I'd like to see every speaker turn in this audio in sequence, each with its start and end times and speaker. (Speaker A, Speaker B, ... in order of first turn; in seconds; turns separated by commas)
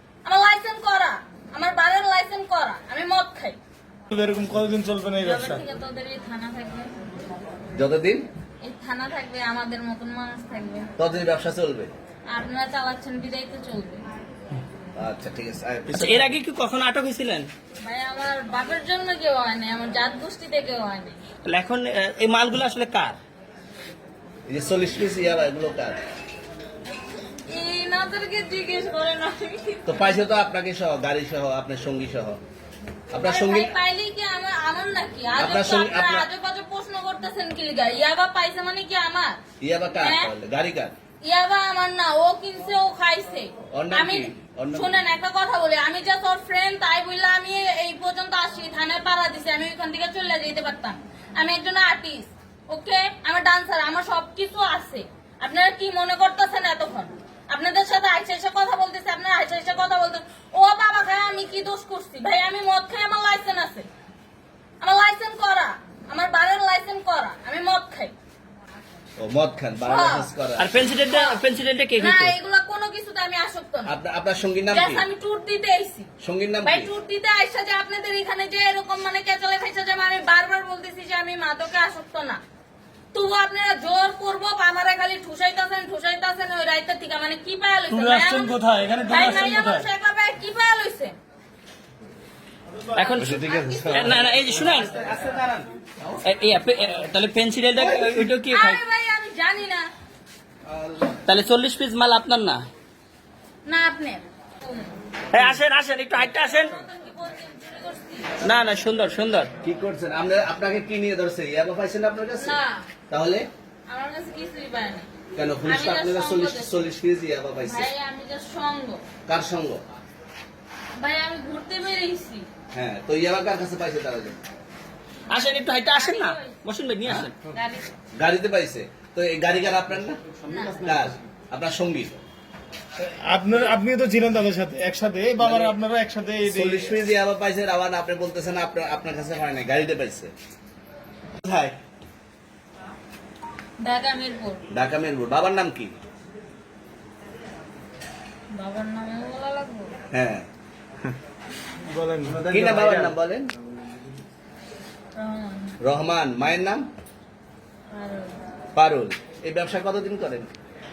Speaker A: 0.2-3.6, Speaker B: 4.1-5.6, Speaker A: 5.2-6.9, Speaker C: 7.8-8.3, Speaker A: 8.6-10.9, Speaker C: 11.0-11.9, Speaker A: 12.3-14.1, Speaker C: 15.0-16.4, Speaker D: 15.9-17.5, Speaker A: 17.8-21.2, Speaker D: 21.4-23.2, Speaker C: 24.5-26.0, Speaker A: 27.5-30.2, Speaker C: 29.9-32.4, Speaker C: 33.1-33.8, Speaker A: 33.1-39.4, Speaker C: 35.4-36.3, Speaker C: 39.6-41.0, Speaker A: 40.0-40.3, Speaker A: 41.2-63.9, Speaker C: 43.7-45.0, Speaker A: 64.8-68.1, Speaker C: 69.2-70.7, Speaker A: 69.8-70.3, Speaker D: 70.6-72.3, Speaker A: 71.0-71.4, Speaker A: 72.0-73.9, Speaker C: 73.9-75.1, Speaker A: 74.7-76.1, Speaker C: 76.2-76.9, Speaker A: 76.7-82.4, Speaker A: 83.1-88.5, Speaker B: 87.9-89.9, Speaker A: 89.1-91.2, Speaker D: 93.0-93.3, Speaker A: 93.0-94.3, Speaker C: 93.2-96.2, Speaker D: 93.9-95.0, Speaker D: 96.2-98.8, Speaker C: 97.8-98.3, Speaker A: 98.5-99.9, Speaker C: 100.7-101.2, Speaker D: 101.3-102.7, Speaker A: 103.7-105.0, Speaker D: 105.3-106.8, Speaker A: 106.3-108.5, Speaker D: 108.4-109.5, Speaker C: 109.6-113.5, Speaker A: 112.4-112.9, Speaker A: 113.9-115.1, Speaker C: 115.3-117.9, Speaker A: 115.6-116.8, Speaker A: 117.6-119.0, Speaker C: 119.3-119.8, Speaker A: 121.0-122.5, Speaker C: 122.7-124.4, Speaker D: 125.3-127.4, Speaker A: 126.0-126.6, Speaker A: 127.5-127.9, Speaker C: 128.2-130.2, Speaker A: 130.5-130.9, Speaker C: 130.7-132.2, Speaker B: 133.0-136.9, Speaker C: 135.4-135.8, Speaker C: 136.4-140.3, Speaker C: 141.4-141.8, Speaker A: 143.8-144.6, Speaker C: 144.7-146.0, Speaker A: 148.6-149.9, Speaker C: 150.1-150.5, Speaker B: 151.9-153.1, Speaker C: 152.4-153.5, Speaker A: 155.2-155.7, Speaker C: 155.8-156.9, Speaker A: 157.9-158.3, Speaker C: 158.8-160.5